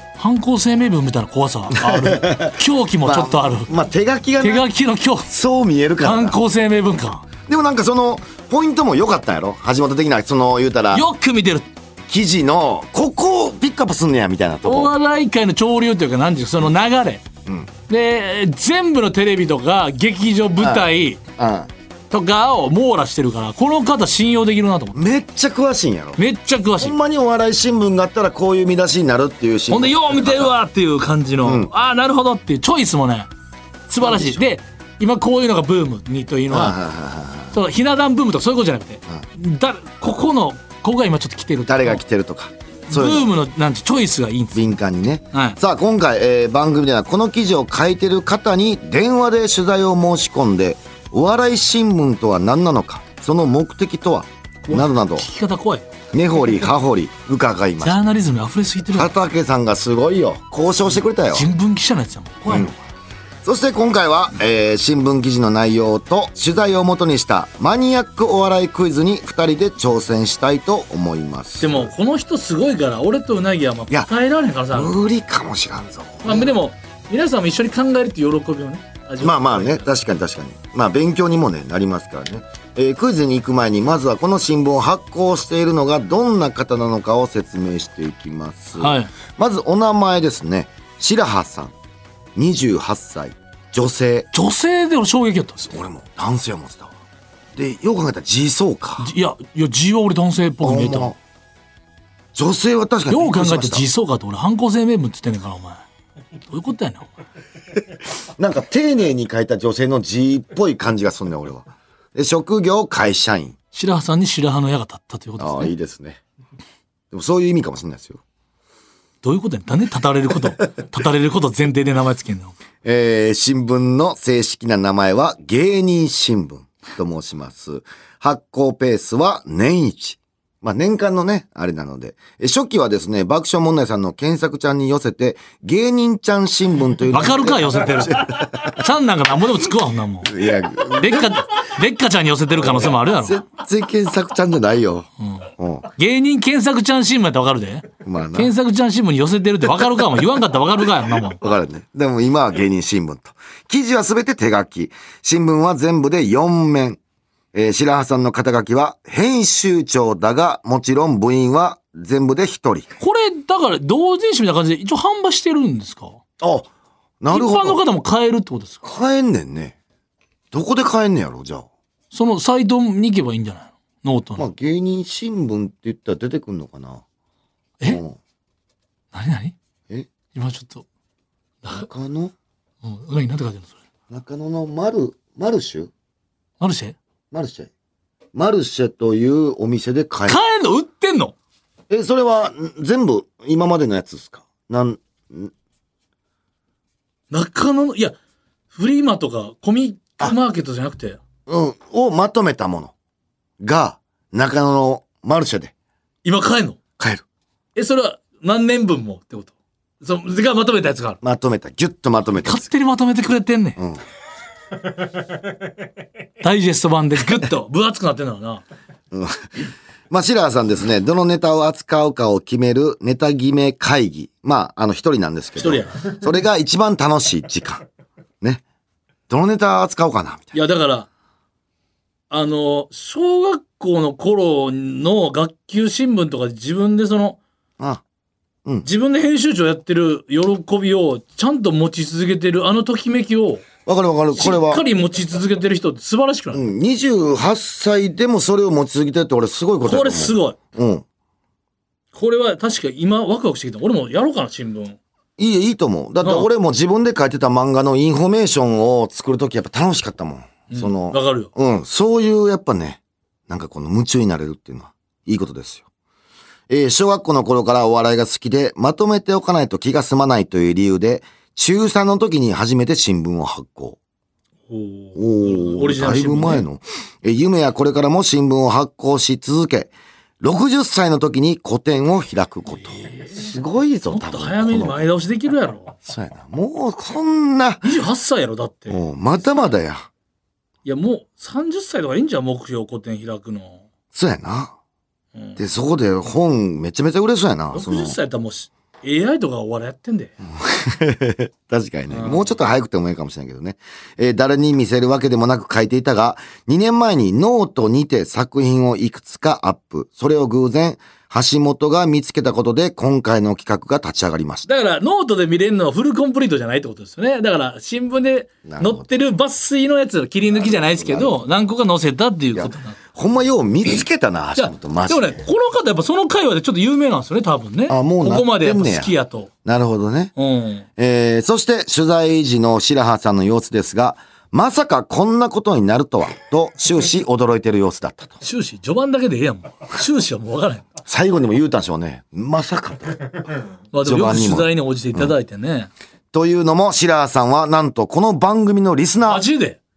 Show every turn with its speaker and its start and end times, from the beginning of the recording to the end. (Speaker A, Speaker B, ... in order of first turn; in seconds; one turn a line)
Speaker A: 0.2-3.7
Speaker B: 1.8-4.7
Speaker A: 4.4-5.3
Speaker B: 5.3-6.4
Speaker A: 6.0-7.3
Speaker B: 7.4-11.1
Speaker A: 10.9-11.7
Speaker B: 12.1-14.9
Speaker A: 14.6-17.2
Speaker A: 17.9-21.2
Speaker B: 20.6-21.7
Speaker A: 22.1-25.1
Speaker B: 24.9-26.2
Speaker A: 26.2-27.0
Speaker B: 26.8-30.5
Speaker A: 29.7-33.3
Speaker B: 31.4-31.7
Speaker A: 33.9-36.8
Speaker B: 34.0-34.5
Speaker B: 36.5-37.6
Speaker A: 37.5-42.0
Speaker B: 41.7-43.3
Speaker A: 42.9-44.7
Speaker B: 44.5-55.3
Speaker A: 45.3-45.6
Speaker A: 54.6-55.9
Speaker B: 56.1-58.0
Speaker A: 57.8-59.1
Speaker B: 59.0-61.5
Speaker A: 61.3-62.8
Speaker B: 63.4-71.9
Speaker A: 71.6-74.9
Speaker B: 74.7-76.5
Speaker A: 76.2-79.9
Speaker B: 79.2-91.7
Speaker A: 88.8-89.1
Speaker B: 92.4-94.3
Speaker A: 94.3-95.8
Speaker B: 95.7-96.9
Speaker B: 97.5-99.1
Speaker A: 99.0-101.1
Speaker B: 100.6-101.2
Speaker B: 102.3-103.9
Speaker A: 103.1-105.8
Speaker A: 106.5-107.2
Speaker B: 108.4-113.6
Speaker A: 113.7-115.7
Speaker B: 115.4-116.2
Speaker B: 117.1-118.2
Speaker A: 119.2-122.5
Speaker B: 122.8-138.6
Speaker A: 137.1-140.3
Speaker B: 140.3-141.4
Speaker A: 140.9-143.4
Speaker B: 142.6-145.9
Speaker A: 145.2-151.4
Speaker B: 148.0-148.5
Speaker B: 151.4-157.0
Speaker B: 157.5-162.9
Speaker A: 163.0-166.2
Speaker B: 166.4-166.7
Speaker B: 167.2-167.8
Speaker A: 167.3-168.8
Speaker B: 168.8-169.8
Speaker B: 170.5-171.7
Speaker A: 172.1-174.5
Speaker B: 174.4-177.0
Speaker B: 177.9-178.2
Speaker A: 179.1-179.6
Speaker A: 180.3-180.8
Speaker A: 181.6-181.9
Speaker B: 181.7-182.3
Speaker A: 182.8-183.8
Speaker B: 184.1-185.9
Speaker A: 186.6-187.0
Speaker B: 187.3-187.7
Speaker B: 188.3-190.4
Speaker A: 190.3-191.3
Speaker B: 191.9-195.5
Speaker A: 197.3-198.2
Speaker A: 198.7-201.2
Speaker B: 201.5-202.9
Speaker B: 203.6-205.7
Speaker A: 206.2-206.8
Speaker B: 207.0-207.2
Speaker A: 207.8-211.2
Speaker B: 211.2-212.7
Speaker A: 212.4-213.8
Speaker B: 213.8-214.0
Speaker A: 216.4-218.6
Speaker B: 219.1-227.8
Speaker A: 225.6-226.1
Speaker B: 229.3-230.6
Speaker A: 230.5-231.1
Speaker A: 232.3-237.4
Speaker A: 238.8-243.6
Speaker B: 243.9-244.9
Speaker A: 244.3-246.7
Speaker B: 246.5-251.1
Speaker A: 249.8-250.6
Speaker A: 252.1-255.0
Speaker B: 255.4-265.9
Speaker A: 256.2-256.5
Speaker A: 260.7-261.5
Speaker B: 266.7-274.0
Speaker A: 274.7-276.7
Speaker B: 275.1-285.1
Speaker A: 284.1-286.0
Speaker B: 286.1-287.9
Speaker A: 287.8-289.0
Speaker B: 288.9-290.1
Speaker A: 290.9-293.8
Speaker B: 294.1-294.8
Speaker A: 295.4-295.6
Speaker B: 295.6-298.2
Speaker A: 297.7-300.4
Speaker B: 300.4-314.7
Speaker A: 302.1-302.5
Speaker A: 314.7-323.0
Speaker B: 318.7-319.1
Speaker B: 320.5-321.4
Speaker B: 322.5-325.4
Speaker A: 324.6-329.5
Speaker B: 327.9-329.1
Speaker B: 329.6-330.3
Speaker A: 330.4-330.9
Speaker B: 331.0-338.4
Speaker A: 338.4-340.9
Speaker B: 341.1-343.4
Speaker A: 343.9-345.9
Speaker B: 344.0-345.3
Speaker B: 346.3-349.5
Speaker A: 349.3-349.8